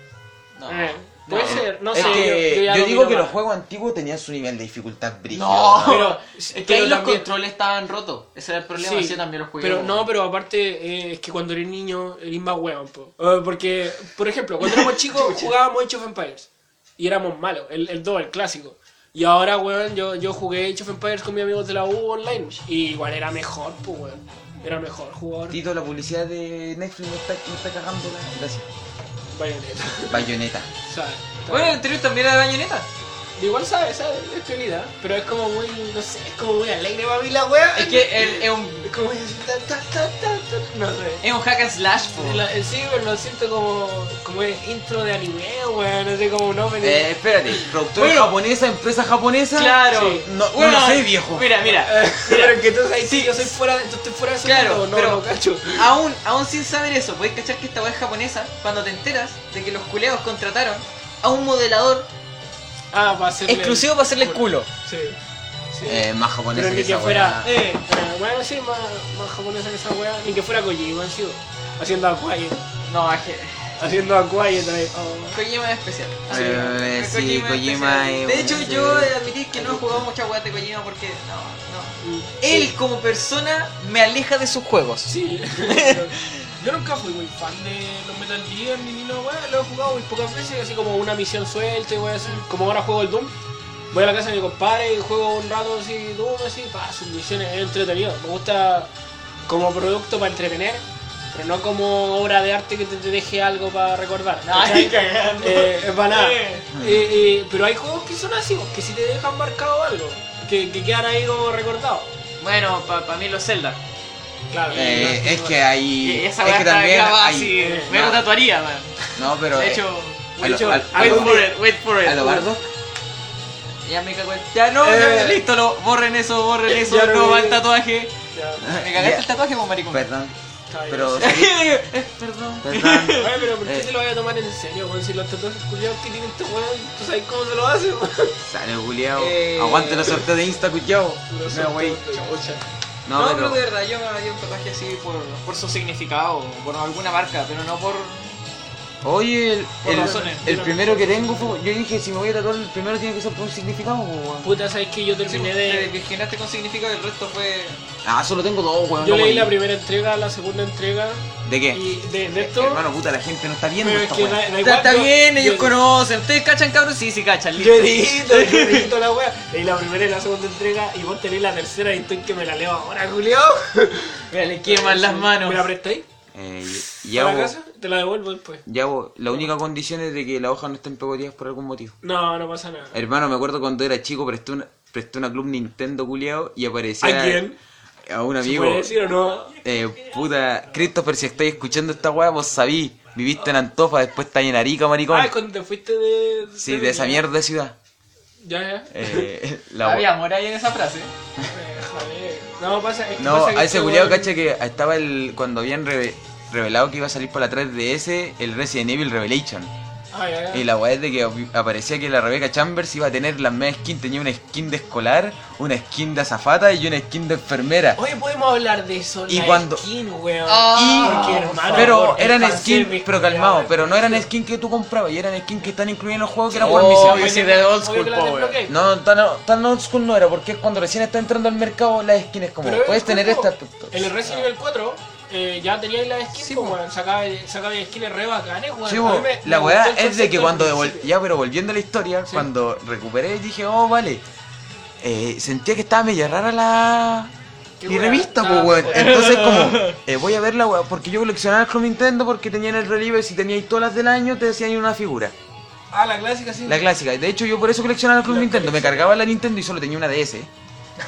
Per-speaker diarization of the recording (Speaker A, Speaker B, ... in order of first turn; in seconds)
Speaker A: 0.6-2.3, 5.3-10.1, 14.6-15.5, 31.5-32.9, 37.7-38.9, 41.2-42.4, 48.0-48.3, 49.5-53.5, 54.4-62.1, 63.5-64.7, 67.4-67.8, 72.9-73.7, 75.3-86.3, 104.4-106.4, 112.4-113.8, 114.7-115.2, 116.0-118.9, 119.5-122.5, 123.8-130.1, 131.2-133.3, 139.2-140.2, 142.1-142.6, 143.1-148.4, 149.8-150.6, 155.3-157.8, 164.6-168.9, 174.3-175.7, 199.8-201.1, 220.5-222.5, 226.5-228.6, 236.4-236.8, 248.9-250.0
Speaker B: 0.7-3.4, 5.8-7.3, 8.7-25.6, 29.3-30.3, 30.9-31.8, 33.4-41.2, 42.2-47.7, 49.9-50.3, 51.6-55.9, 62.9-65.2, 65.7-72.7, 73.8-75.4, 76.3-76.7, 82.0-82.8, 85.1-93.4, 93.9-98.9, 99.5-112.1, 114.5-115.6, 117.6-118.0, 120.6-121.5, 124.8-125.4, 126.7-127.6, 128.3-128.7, 130.7-131.4, 133.2-138.4, 141.3-142.6, 149.8-151.6, 154.4-155.9, 159.0-162.8, 163.8-165.8, 167.6-176.1, 176.9-178.7, 182.0-183.0, 187.0-187.6, 188.4-189.6, 195.1-197.2, 198.4-199.3, 201.4-204.3, 210.1-210.7, 218.0-224.3, 226.5-228.8, 232.6-241.1, 247.8-249.4, 255.9-256.9, 258.3-259.1
Speaker C: 1.3-6.1, 25.5-28.7, 30.1-30.7, 46.8-51.5, 65.8-67.5, 76.3-80.1, 106.7-107.2, 114.7-118.3, 119.2-119.9, 120.4-121.5, 122.0-122.7, 128.6-129.3, 129.9-130.4, 130.9-131.6, 132.6-133.9, 138.4-142.0, 143.1-143.6, 149.0-154.5, 158.0-159.5, 161.4-164.5, 176.3-177.6, 178.7-182.0, 182.9-187.4, 188.1-188.9, 189.6-195.3, 196.6-197.8, 198.9-200.1, 203.2-209.7, 210.5-218.0, 219.3-219.8, 220.7-227.3, 228.7-234.2, 238.8-244.2, 245.0-247.3, 247.9-255.3, 256.7-260.5